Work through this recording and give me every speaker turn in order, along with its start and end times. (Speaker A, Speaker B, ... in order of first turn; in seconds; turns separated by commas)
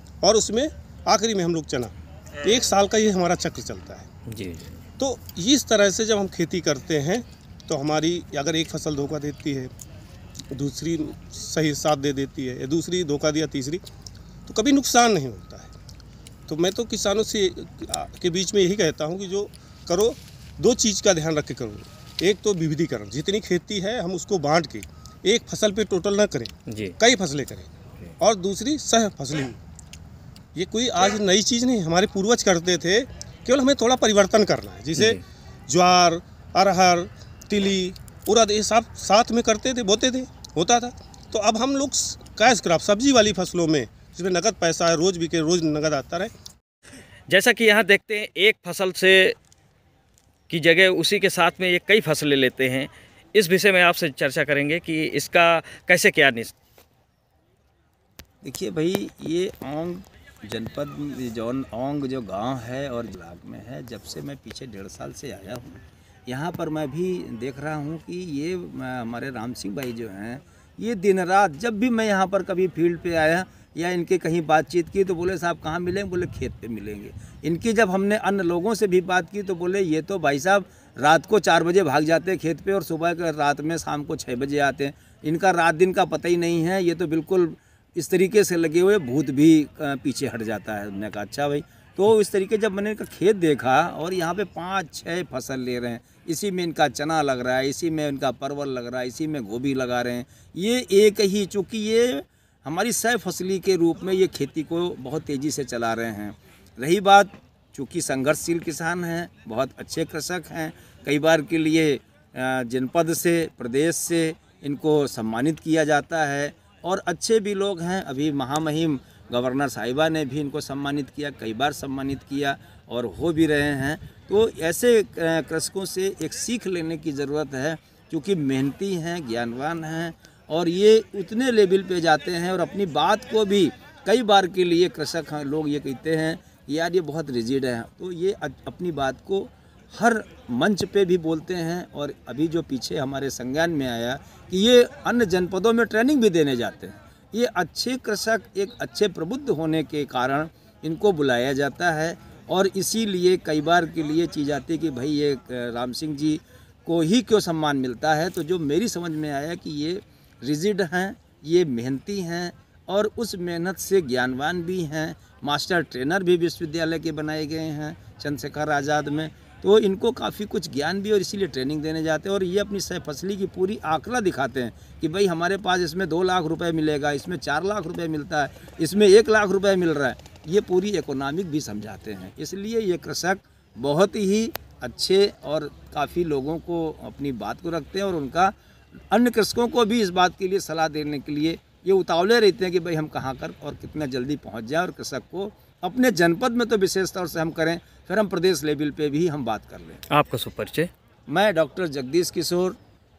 Speaker A: 0.2-4.1, Speaker B: 4.3-4.8, Speaker A: 5.0-9.7, Speaker A: 10.5-13.8, Speaker A: 14.5-15.7, Speaker A: 16.5-27.7, Speaker B: 26.7-26.9, Speaker A: 28.2-29.6, Speaker A: 30.6-46.3, Speaker B: 47.3-49.4, Speaker B: 50.5-56.5, Speaker C: 58.4-188.5, Speaker C: 189.1-200.0, Speaker B: 200.1-200.9, Speaker C: 201.3-202.8